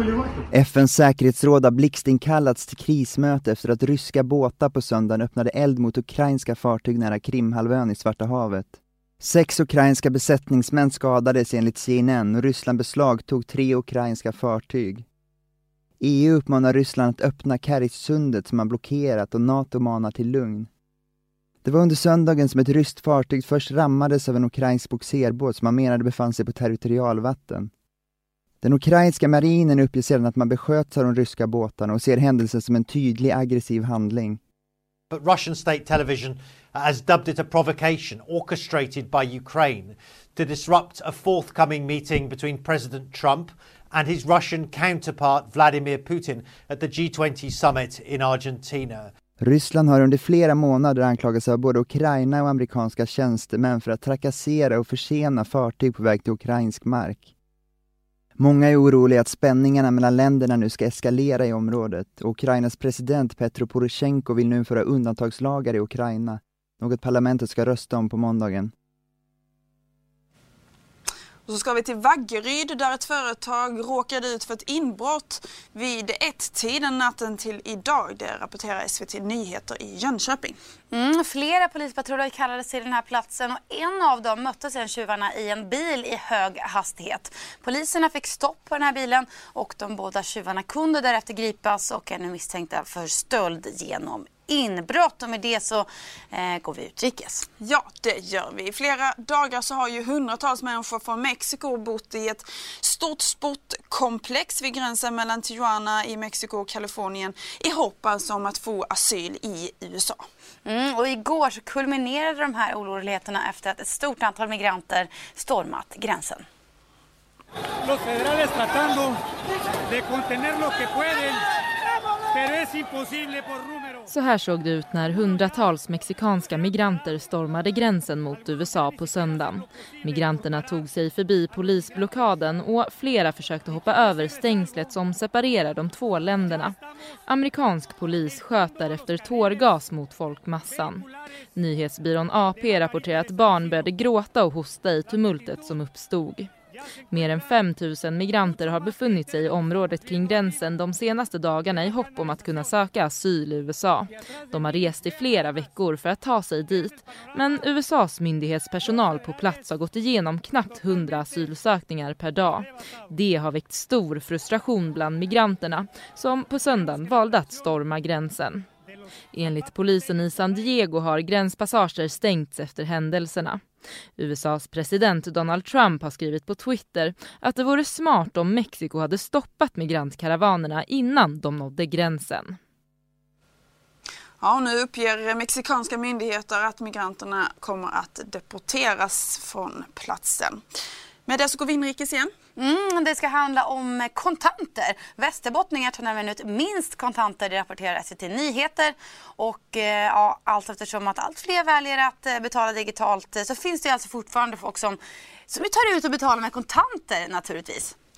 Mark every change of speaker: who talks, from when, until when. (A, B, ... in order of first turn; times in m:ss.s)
0:00.5-0:15.0 A
0:16.0-0:20.7 A
0:21.6-0:27.7 A
0:28.6-0:34.4 A
0:35.1-0:49.1 B
0:49.4-0:57.3 A
0:58.4-1:08.7 A
1:11.5-1:20.6 C
1:20.9-1:37.5 D
1:37.6-1:50.2 C
1:50.6-1:56.4 D
2:04.1-2:16.7 E
2:17.2-2:26.5 E
2:27.1-2:48.7 E
2:49.3-2:53.6 E
2:54.2-3:02.6 E
3:04.4-3:10.6 C
3:11.3-3:12.3 C
3:12.6-3:25.0 D
3:25.5-3:27.9 D